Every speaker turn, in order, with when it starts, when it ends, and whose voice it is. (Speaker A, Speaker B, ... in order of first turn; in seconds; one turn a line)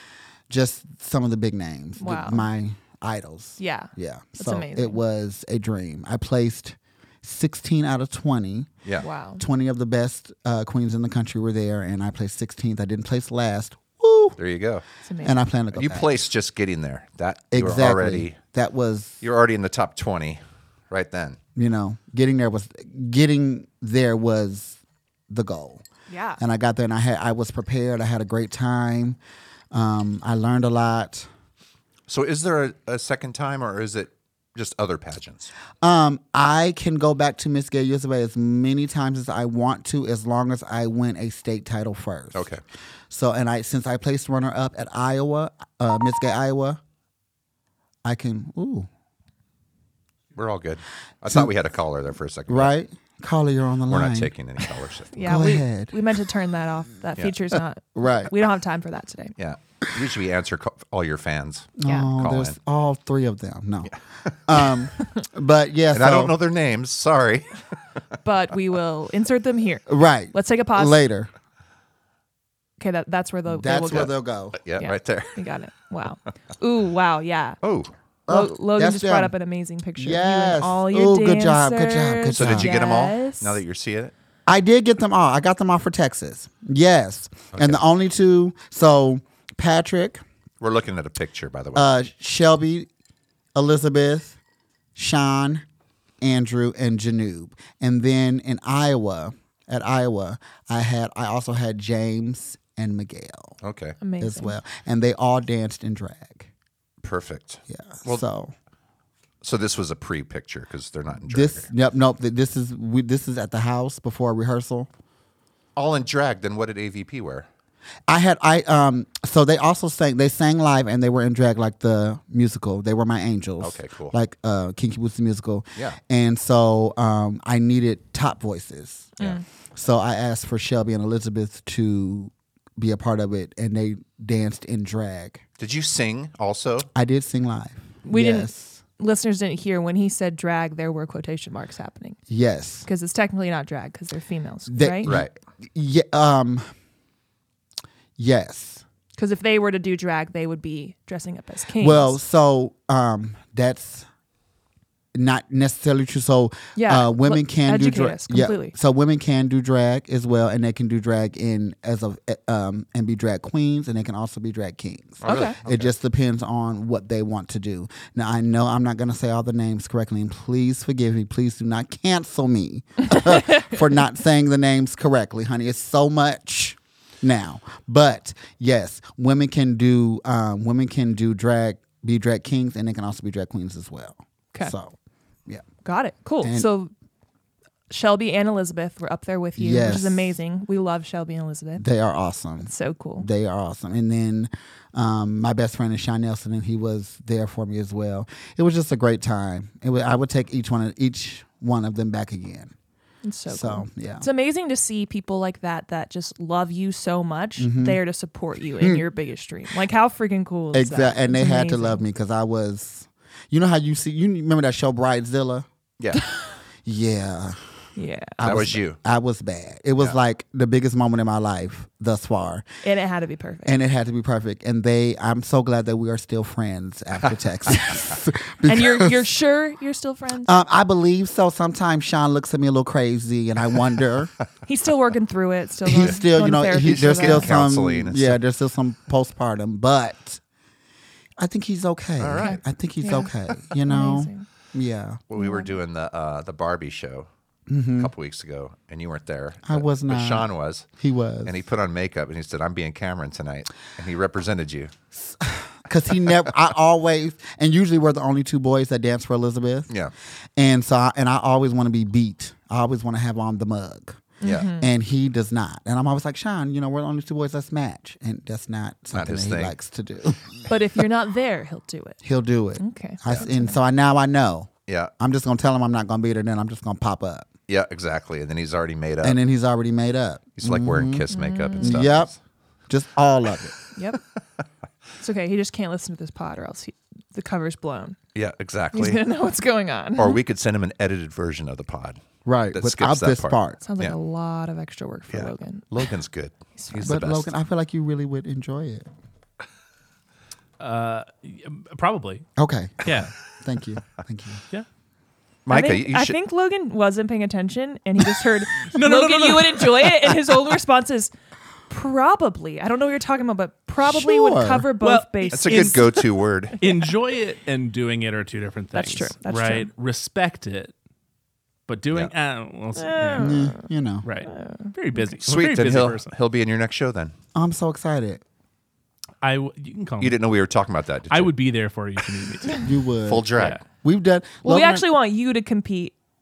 Speaker A: 0.5-8.7
Speaker B: 2.0-2.5
Speaker B: 3.6-5.0
Speaker B: 9.0-9.4
Speaker A: 9.4-14.4
Speaker C: 14.4-14.8
Speaker B: 15.0-15.3
Speaker A: 15.2-16.1
Speaker C: 15.7-18.4
Speaker A: 17.5-19.2
Speaker C: 19.2-21.4
Speaker A: 21.6-25.8
Speaker B: 26.1-26.4
Speaker A: 26.4-29.2
Speaker A: 29.7-31.3
Speaker C: 32.1-35.5
Speaker A: 35.8-42.5
Speaker C: 42.3-42.6
Speaker A: 43.1-46.8
Speaker A: 48.0-48.9
Speaker C: 50.3-52.7
Speaker A: 52.5-54.3
Speaker C: 53.9-55.2
Speaker B: 55.1-59.3
Speaker A: 55.2-56.0
Speaker A: 58.0-58.3
Speaker C: 59.4-62.5
Speaker A: 61.8-63.9
Speaker C: 63.9-64.8
Speaker A: 64.5-66.3
Speaker C: 65.9-67.6
Speaker B: 68.2-71.0
Speaker A: 69.9-71.3
Speaker B: 72.8-74.1
Speaker A: 73.5-74.6
Speaker C: 73.9-75.3
Speaker B: 74.8-77.6
Speaker C: 77.6-77.9
Speaker A: 78.3-79.3
Speaker B: 78.3-83.6
Speaker A: 80.0-82.7
Speaker C: 82.4-84.1
Speaker A: 84.5-90.2
Speaker C: 87.5-87.8
Speaker C: 90.6-91.9
Speaker A: 91.7-92.9
Speaker A: 93.5-94.4
Speaker A: 94.9-95.6
Speaker A: 96.2-103.6
Speaker C: 103.6-104.0
Speaker B: 104.0-104.5
Speaker A: 104.2-106.5
Speaker C: 107.0-108.2
Speaker A: 107.7-108.5
Speaker C: 109.4-111.7
Speaker A: 111.3-114.9
Speaker C: 115.8-117.5
Speaker A: 118.1-129.2
Speaker C: 123.6-124.2
Speaker B: 129.2-129.4
Speaker A: 129.7-135.4
Speaker C: 135.6-136.9
Speaker A: 136.9-138.8
Speaker B: 138.0-142.2
Speaker A: 142.3-142.9
Speaker B: 142.8-145.1
Speaker A: 144.7-146.7
Speaker C: 145.1-145.3
Speaker A: 148.2-148.8
Speaker B: 149.2-152.2
Speaker A: 151.8-154.1
Speaker A: 155.1-184.9
Speaker B: 156.8-158.7
Speaker C: 165.2-165.9
Speaker B: 165.2-165.6
Speaker B: 185.8-186.9
Speaker A: 186.4-186.7
Speaker B: 187.9-191.8
Speaker A: 189.6-190.3
Speaker A: 191.8-202.7
Speaker B: 192.6-193.3
Speaker B: 203.2-212.0
Speaker A: 203.5-204.2
Speaker A: 207.6-208.0
Speaker A: 210.7-215.7
Speaker C: 216.0-216.2
Speaker A: 216.8-217.6
Speaker B: 217.9-218.4
Speaker A: 218.4-222.7
Speaker C: 218.4-219.0
Speaker B: 222.8-223.7
Speaker A: 223.6-229.3
Speaker B: 228.7-230.5
Speaker A: 230.4-234.3
Speaker B: 234.6-237.5
Speaker A: 235.8-240.4
Speaker C: 236.7-238.4
Speaker A: 241.4-245.2
Speaker C: 242.2-242.6
Speaker B: 242.4-243.3
Speaker B: 243.8-244.5
Speaker C: 245.3-247.3
Speaker B: 245.3-245.7
Speaker A: 247.7-248.1
Speaker C: 247.9-250.8
Speaker A: 249.7-251.5
Speaker C: 251.4-254.9
Speaker A: 255.1-259.9
Speaker A: 260.6-270.7
Speaker B: 264.4-264.9
Speaker C: 264.4-264.7
Speaker C: 269.1-269.7
Speaker B: 270.7-272.2
Speaker A: 272.2-277.5
Speaker B: 272.8-273.8
Speaker C: 277.7-279.4
Speaker A: 279.2-281.2
Speaker C: 280.6-282.4
Speaker B: 281.3-282.1
Speaker A: 281.8-282.3
Speaker A: 282.9-283.8
Speaker B: 283.9-284.2
Speaker B: 285.2-288.2
Speaker C: 288.3-289.2
Speaker B: 288.9-290.4
Speaker C: 290.2-292.2
Speaker A: 292.4-293.8
Speaker C: 292.7-294.1
Speaker B: 293.8-295.9
Speaker C: 295.3-297.5
Speaker B: 296.8-297.1
Speaker A: 297.0-299.1
Speaker D: 300.8-302.5
Speaker A: 302.6-304.6
Speaker D: 303.0-303.3
Speaker C: 305.6-306.4
Speaker B: 305.7-311.3
Speaker D: 308.8-310.4
Speaker B: 311.9-316.1
Speaker A: 314.0-314.9
Speaker D: 315.0-316.2
Speaker C: 315.5-316.8
Speaker D: 316.8-320.9
Speaker B: 318.9-319.9
Speaker D: 321.9-323.6
Speaker B: 322.9-323.9
Speaker A: 323.4-324.3
Speaker D: 324.2-326.3
Speaker B: 324.4-325.3
Speaker C: 325.4-327.3
Speaker A: 327.5-328.4
Speaker D: 329.4-330.4
Speaker C: 330.2-331.5
Speaker D: 331.3-332.9
Speaker A: 332.8-335.0
Speaker C: 333.2-333.8
Speaker B: 334.6-336.1